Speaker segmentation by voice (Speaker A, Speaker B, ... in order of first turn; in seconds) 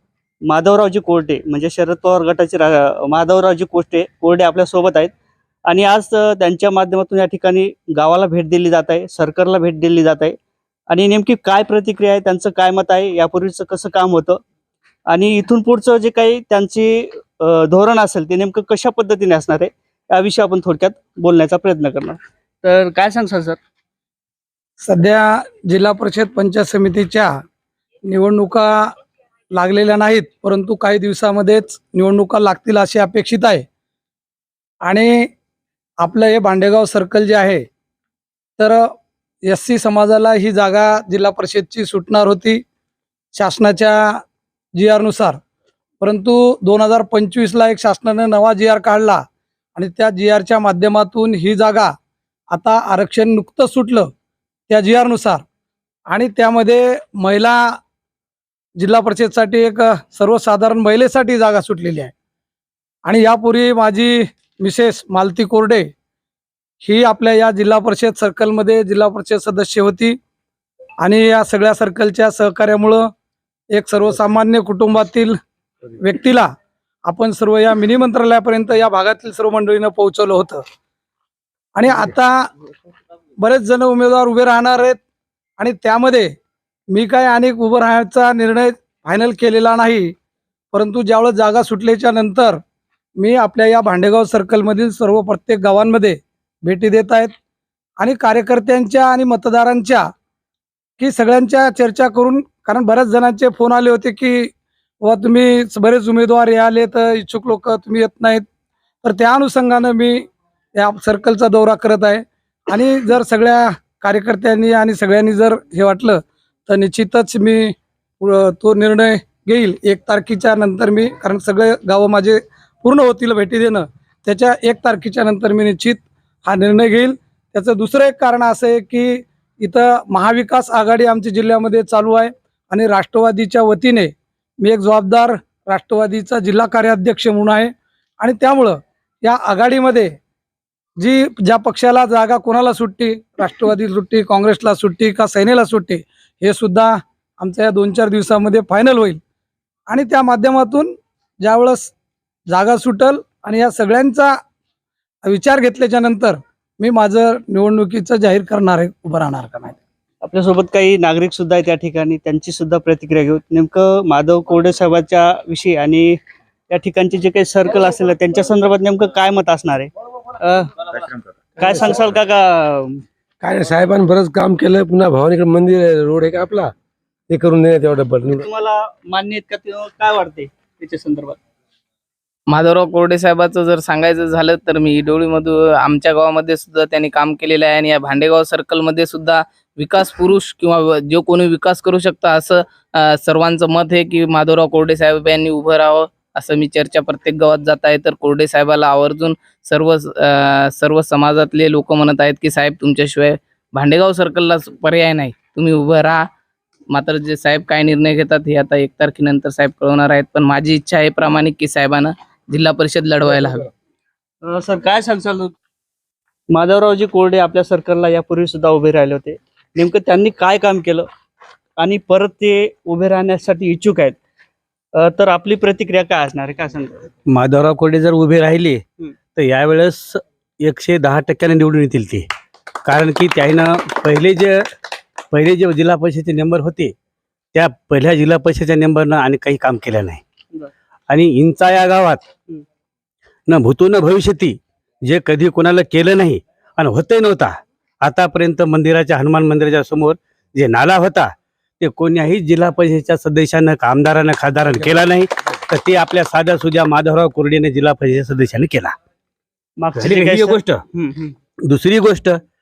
Speaker A: 0.5-5.1, 5.7-10.3, 10.9-14.4, 15.1-23.6, 160.2-166.2, 166.7-170.9, 171.6-173.0, 178.3-181.4, 214.4-215.5, 216.5-221.1, 221.8-224.2, 225.0-227.1, 259.8-261.3
Speaker B: 24.8-27.3, 28.1-28.9, 29.5-33.6, 34.8-35.3, 36.0-37.6, 38.6-38.9, 39.4-42.6, 43.3-44.2, 44.7-45.4, 46.0-49.2, 49.8-51.9, 52.5-54.1, 54.7-55.4, 56.1-57.8, 58.8-62.1, 63.0-65.9, 66.8-70.2, 71.0-73.1, 73.7-75.3, 76.0-76.5, 77.0-80.6, 81.7-82.5, 83.4-85.0, 85.6-86.3, 86.9-90.1, 90.7-92.6, 93.2-97.3, 98.0-100.1, 101.0-108.4, 109.0-140.2, 141.0-149.2, 149.9-151.9, 152.5-154.3, 155.2-159.8
Speaker C: 173.4-176.7, 177.3-178.4
Speaker D: 182.5-206.2, 206.9-213.7
Speaker E: 227.3-228.8, 229.3-232.3, 232.8-234.6, 235.3-236.9, 237.5-240.2, 241.1-242.2, 243.5-258.9, 259.9-260.8, 261.7-262.4